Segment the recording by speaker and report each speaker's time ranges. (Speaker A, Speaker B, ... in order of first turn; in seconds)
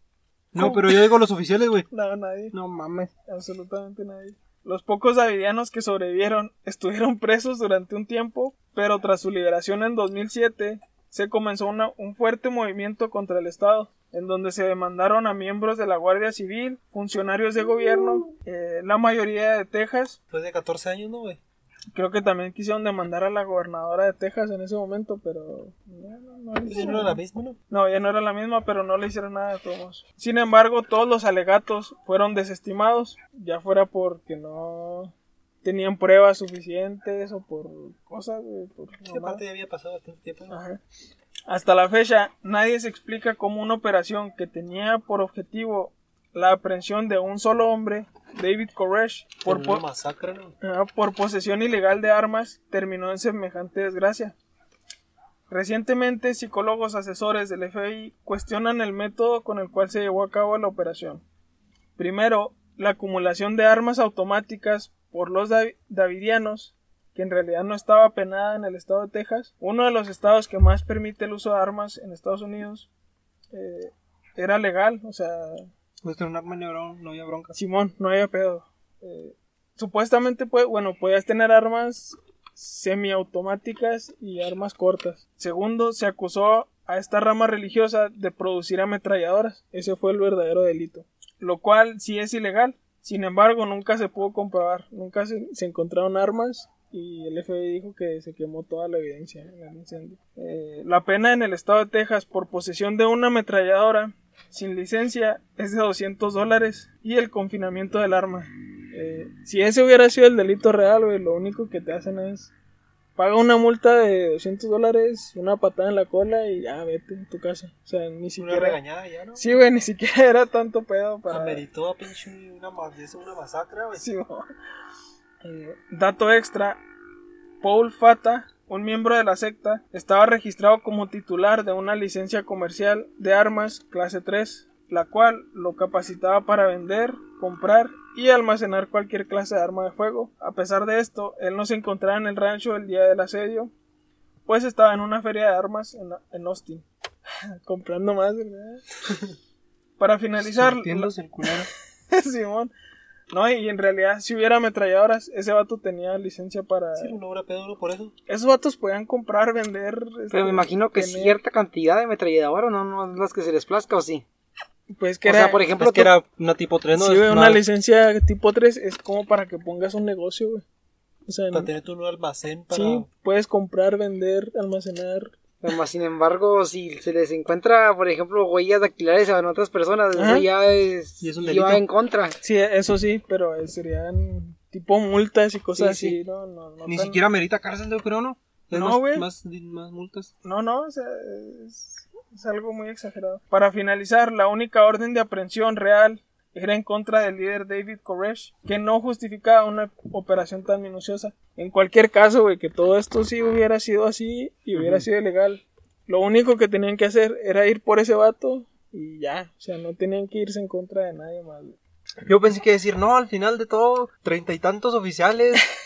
Speaker A: 0.5-1.9, 2.5-3.1, 76.0-77.5, 150.5-151.7, 165.8-167.6, 181.2-181.8, 186.8-190.3, 212.2-215.6
Speaker B: 0.6-1.1, 1.9-2.5, 3.3-20.2, 21.9-39.4, 40.5-40.8, 41.5-49.8, 50.6-54.3, 55.5-61.2, 62.0-72.9, 73.5-75.7, 77.5-112.5, 113.2-118.8, 119.3-121.6, 123.9-124.4, 125.4-126.8, 127.6-143.7, 144.4-146.8, 147.6-148.8, 150.0-152.7, 153.3-157.2, 158.3-161.4, 164.9-165.7, 167.0-170.6, 171.3-171.7, 172.7-175.3, 180.2-180.5, 182.4-187.2, 188.7-189.3, 190.4-211.8
Speaker C: 20.3-21.4, 26.6-27.6, 39.0-40.6, 49.4-50.5, 118.4-119.5, 121.3-124.0, 156.9-158.1, 171.5-173.1
Speaker D: 160.3-164.2, 165.2-166.1, 175.6-182.4, 185.8-186.2